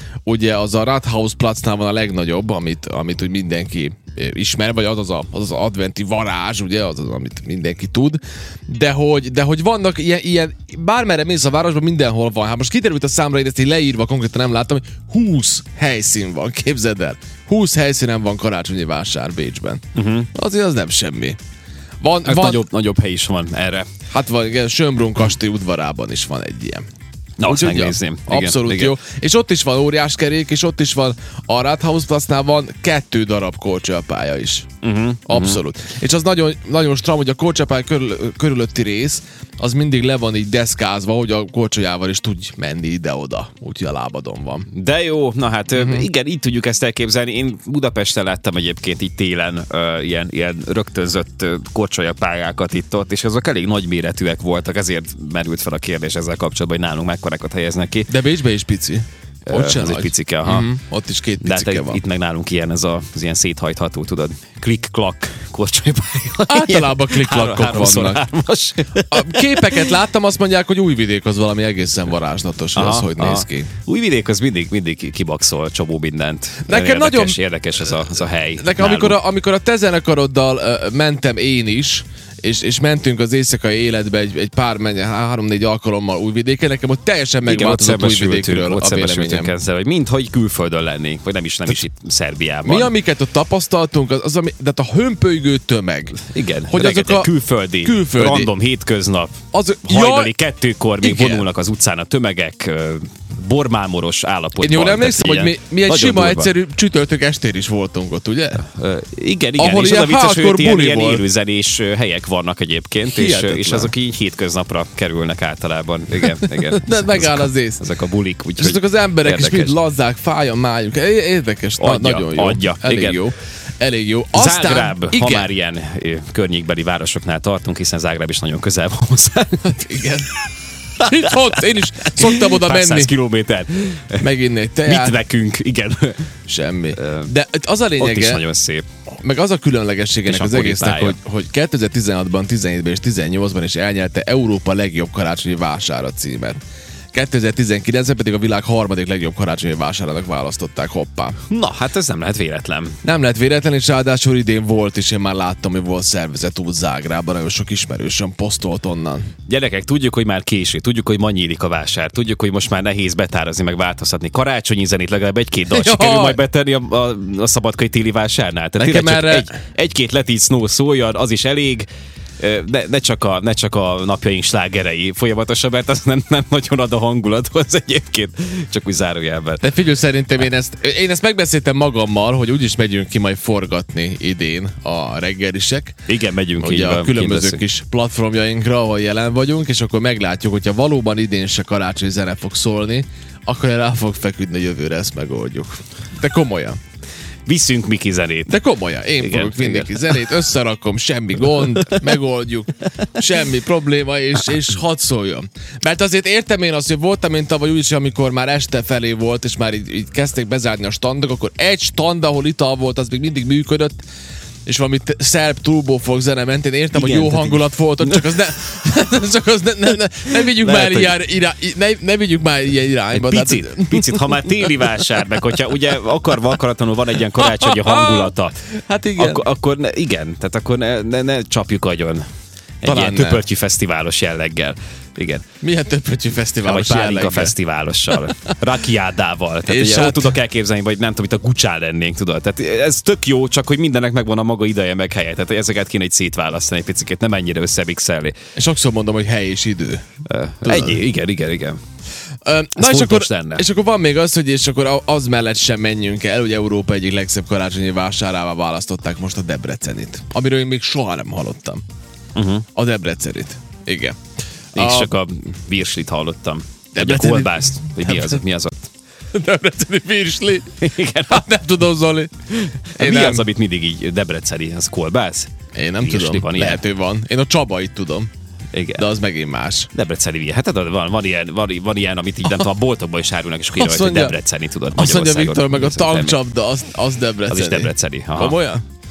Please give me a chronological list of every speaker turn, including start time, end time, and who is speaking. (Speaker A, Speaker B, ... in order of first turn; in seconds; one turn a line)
Speaker A: 0.3-19.8
Speaker B: 19.9-20.3
Speaker A: 20.3-21.4
Speaker A: 22.0-22.6
Speaker B: 22.2-23.9
Speaker A: 24.1-26.9
Speaker B: 27.4-29.0
Speaker A: 27.4-34.7
Speaker B: 34.8-35.6
Speaker A: 35.3-44.7
Speaker B: 44.7-58.1
Speaker A: 45.8-46.0
Speaker A: 58.1-62.0
Speaker B: 59.5-60.7
Speaker B: 61.4-69.9
Speaker A: 66.5-68.3
Speaker A: 69.1-73.7
Speaker B: 72.8-79.2
Speaker A: 76.7-77.4
Speaker A: 78.6-89.5
Speaker B: 87.4-92.9
Speaker A: 92.7-98.5
Speaker B: 96.2-106.5
Speaker A: 99.5-100.3
Speaker A: 101.0-101.5
Speaker A: 104.6-108.6
Speaker B: 108.6-119.8
Speaker A: 109.6-111.2
Speaker A: 113.1-113.9
Speaker A: 116.6-117.8
Speaker A: 118.6-125.5
Speaker B: 121.8-123.2
Speaker B: 124.3-129.8
Speaker A: 129.7-130.3
Speaker A: 131.0-133.1
Speaker B: 131.0-131.6
Speaker B: 132.2-134.3
Speaker A: 134.2-135.2
Speaker B: 134.8-136.3
Speaker A: 136.5-138.4
Speaker B: 137.0-137.3
Speaker B: 138.0-138.8
Speaker A: 139.2-146.6
Speaker B: 140.3-141.2
Speaker A: 147.1-151.4
Speaker B: 151.5-153.0
Speaker A: 153.0-159.3
Speaker B: 159.5-171.9
Speaker A: 165.7-166.4
Speaker A: 168.8-169.6
Speaker B: 172.4-179.6
Speaker A: 179.6-186.0
Speaker B: 186.1-187.6
Speaker A: 186.6-196.8
Speaker B: 197.5-198.5
Speaker A: 198.5-214.1
Speaker B: 199.2-200.2
Speaker B: 201.6-201.9
Speaker A: 214.7-225.1
Speaker B: 216.9-218.3
Speaker B: 220.3-221.2
Speaker B: 223.1-228.6
Speaker A: 227.4-229.4
Speaker B: 229.2-232.2
Speaker B: 232.8-235.4
Speaker A: 232.8-233.4
Speaker A: 235.6-237.5
Speaker B: 236.6-248.3
Speaker A: 238.1-238.5
Speaker A: 239.7-240.3
Speaker A: 248.6-250.0
Speaker B: 250.3-251.8
Speaker A: 250.7-251.0
Speaker A: 252.5-261.8
Speaker B: 252.8-253.7
Speaker B: 262.4-262.7
Speaker A: 262.8-264.2
Speaker A: 264.7-265.1
Speaker B: 264.8-268.9
Speaker A: 266.9-268.4
Speaker A: 269.3-272.3
Speaker B: 270.8-271.4
Speaker B: 272.6-275.5
Speaker A: 272.9-273.5
Speaker A: 275.8-278.3
Speaker B: 276.0-276.8
Speaker B: 278.7-279.1
Speaker A: 279.0-279.9
Speaker B: 279.9-286.4
Speaker A: 283.8-284.4
Speaker A: 284.9-288.8
Speaker B: 287.5-288.6